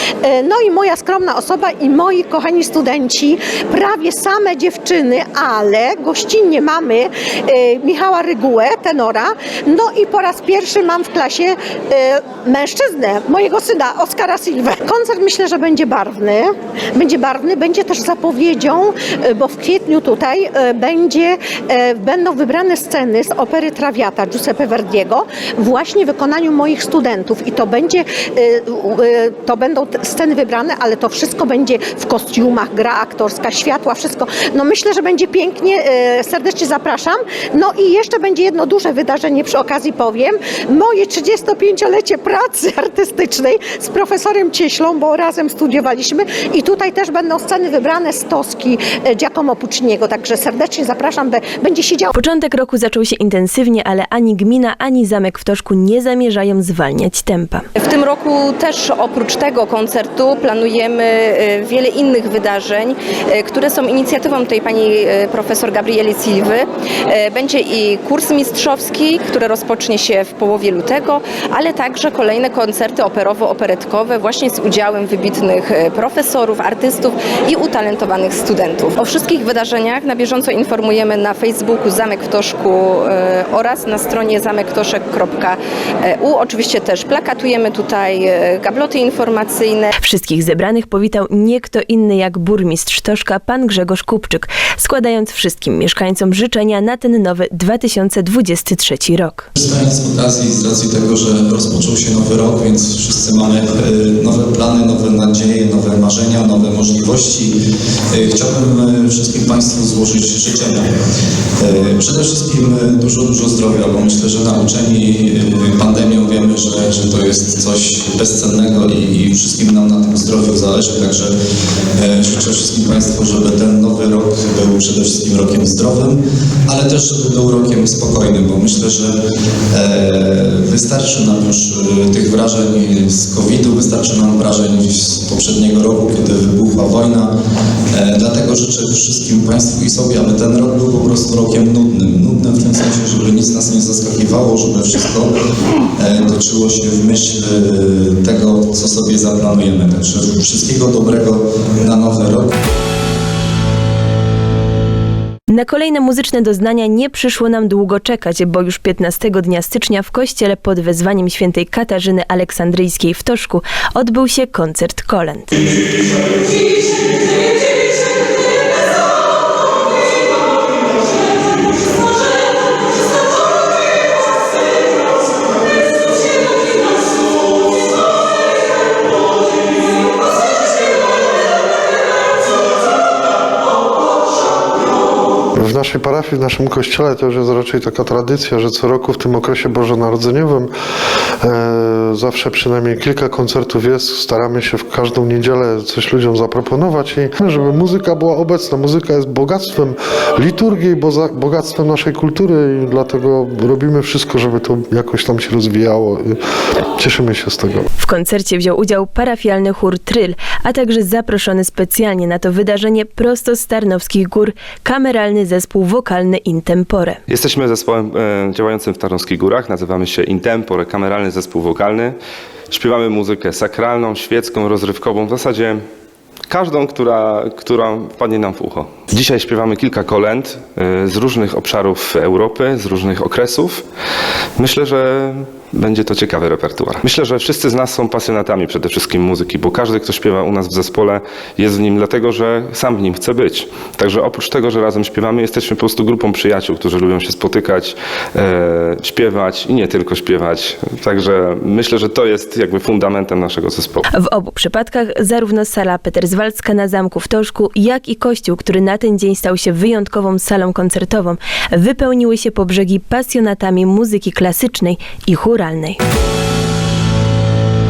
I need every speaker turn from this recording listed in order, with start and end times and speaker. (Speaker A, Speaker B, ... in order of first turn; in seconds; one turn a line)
Speaker A: 0.2-52.1
Speaker B: 52.1-57.7
Speaker C: 57.8-89.9
Speaker B: 90.0-99.5
Speaker D: 99.6-107.6
Speaker D: 108.1-110.9
Speaker D: 111.6-121.3
Speaker D: 122.0-129.2
Speaker D: 129.7-137.3
Speaker D: 137.9-145.3
Speaker D: 146.0-152.5
Speaker B: 155.5-165.8
Speaker E: 185.6-190.7
Speaker E: 191.4-206.4
Speaker E: 207.0-207.9
Speaker B: 208.0-217.2
Speaker F: 217.3-222.2
Speaker F: 222.7-225.8
Speaker F: 226.5-233.8
Speaker F: 234.6-254.0
Speaker B: 254.2-266.0